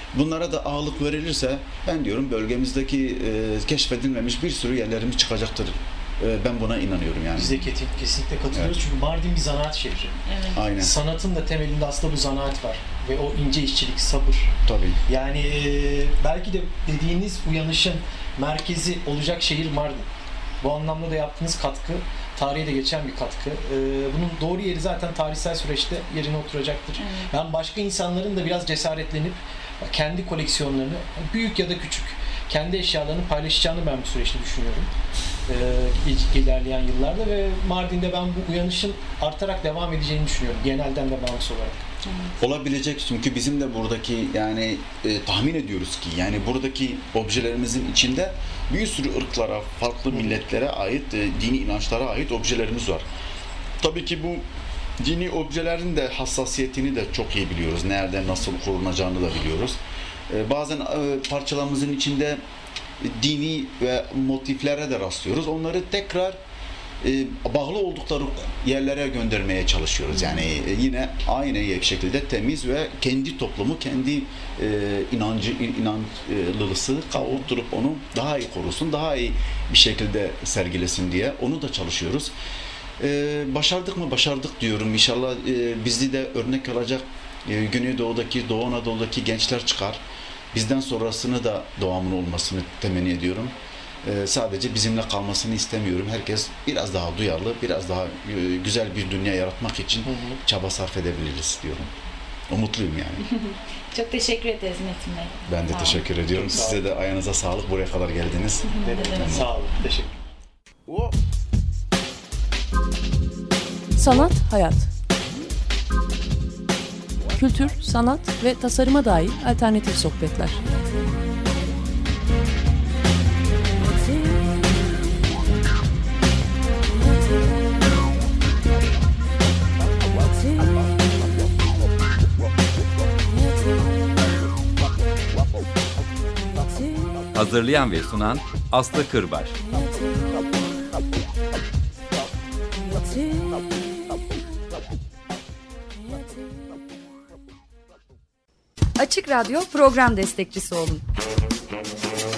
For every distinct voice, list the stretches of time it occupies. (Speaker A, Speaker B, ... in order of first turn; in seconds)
Speaker A: 0.1-7.6, 8.5-8.8, 10.6-10.9, 14.7-15.0, 42.4-53.1, 53.8-54.5, 55.0-59.8, 60.3-62.4, 63.0-66.4, 67.0-82.3, 83.0-90.0, 90.5-93.5, 94.0-101.9, 102.5-103.2, 105.5-109.5, 110.9-111.1
Speaker B: 7.3-10.1, 10.8-14.5, 15.1-20.1, 20.6-34.9, 35.5-41.9, 77.2-77.5, 100.0-100.4, 106.3-106.8, 108.8-110.2
Speaker C: 10.2-10.6, 27.0-27.3, 42.0-42.3, 103.2-106.1, 108.7-109.4
Speaker D: 114.0-114.9, 117.3-120.6
Speaker E: 137.3-139.6
Speaker F: 149.0-151.0